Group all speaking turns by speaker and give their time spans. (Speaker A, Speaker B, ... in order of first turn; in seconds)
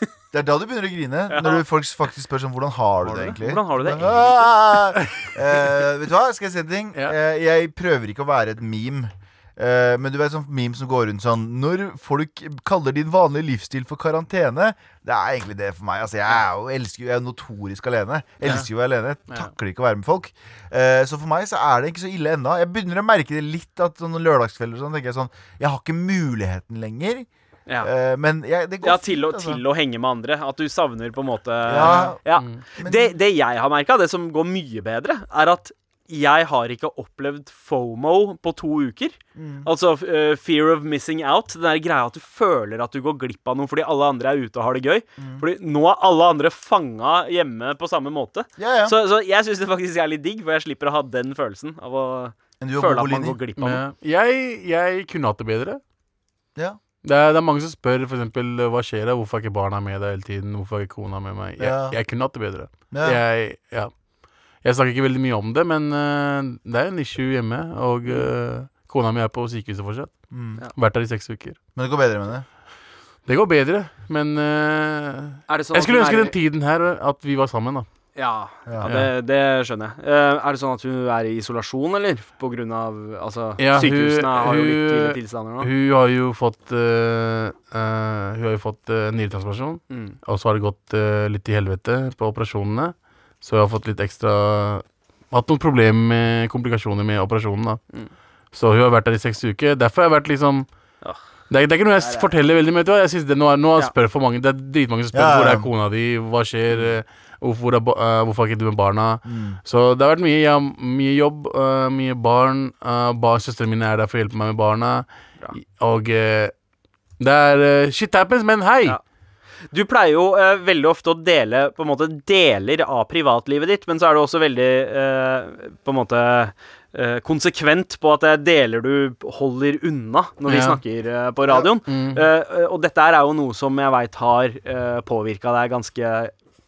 Speaker A: 0.3-27.3, 27.8-29.6, 31.6-32.2, 32.8-33.1, 39.4-39.7, 45.2-45.5, 48.6-49.0, 52.6-53.4, 61.6-62.0, 62.9-63.2, 70.3-70.6, 71.8-72.5, 105.1-105.7, 109.2-109.6
Speaker B: 1.3-1.6, 3.0-4.5, 28.8-53.8, 75.5-76.4, 78.2-85.7, 89.9-90.2, 102.0-102.3, 119.7-136.3
Speaker C: 31.8-32.6, 53.6-55.8, 57.0-63.9, 64.6-70.2, 70.8-71.6, 73.3-77.9, 78.8-79.1, 83.6-97.8, 98.5-100.7, 101.5-116.5, 117.2-119.0, 130.5-130.8, 131.9-132.2